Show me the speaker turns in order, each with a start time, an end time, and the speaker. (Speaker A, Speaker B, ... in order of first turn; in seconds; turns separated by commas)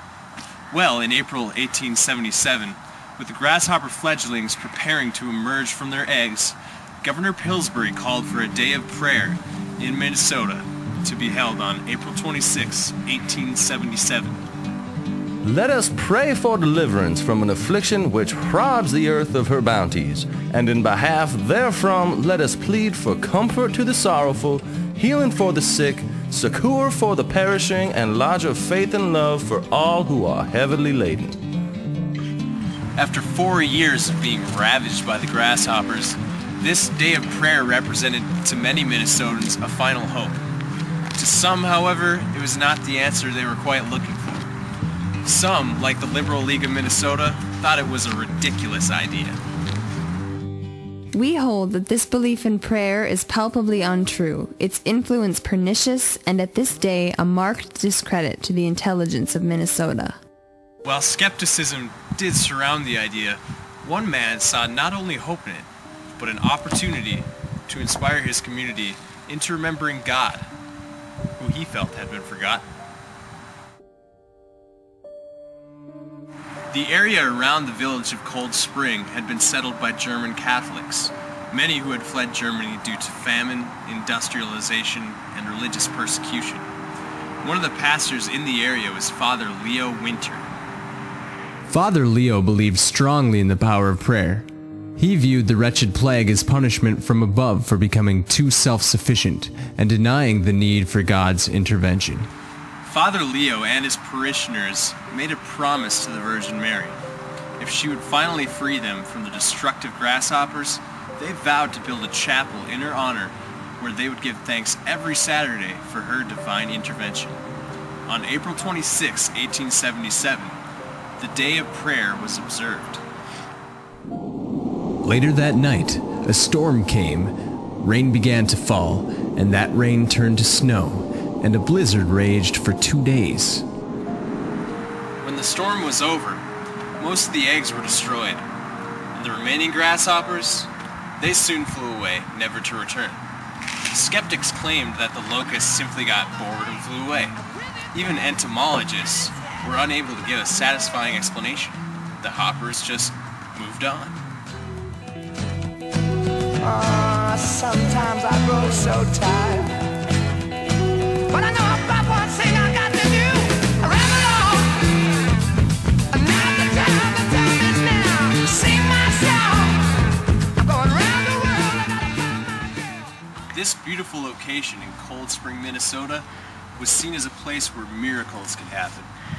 Speaker A: 0.7-14.4, Speaker B: 15.4-31.4, Speaker A: 33.0-40.4, Speaker A: 41.1-44.5, Speaker A: 45.2-49.4, Speaker C: 51.1-60.2, Speaker A: 60.8-65.7, Speaker A: 66.2-70.5, Speaker A: 71.4-72.6, Speaker A: 76.7-86.7, Speaker A: 87.4-90.5, Speaker D: 91.7-94.5, Speaker A: 92.7-93.1, Speaker D: 95.0-98.0, Speaker A: 95.7-99.0, Speaker D: 98.8-102.3, Speaker A: 99.7-101.5, Speaker A: 102.8-107.0, Speaker A: 107.6-117.4, Speaker A: 118.1-120.6, Speaker A: 121.2-123.0, Speaker D: 125.1-126.2, Speaker A: 126.2-126.8, Speaker D: 126.8-127.3, Speaker D: 127.8-133.6, Speaker A: 128.2-130.6, Speaker A: 135.2-136.4, Speaker A: 137.0-138.4, Speaker A: 139.1-143.2, Speaker A: 143.9-147.3, Speaker A: 147.9-154.2, Speaker E: 156.7-159.8, Speaker C: 157.2-157.7, Speaker C: 158.4-158.7, Speaker C: 159.3-159.6, Speaker E: 161.3-164.9, Speaker C: 163.0-164.6, Speaker C: 166.3-169.8, Speaker C: 170.8-171.8, Speaker A: 173.6-175.9, Speaker D: 175.7-176.2, Speaker D: 176.8-177.3, Speaker A: 177.2-179.1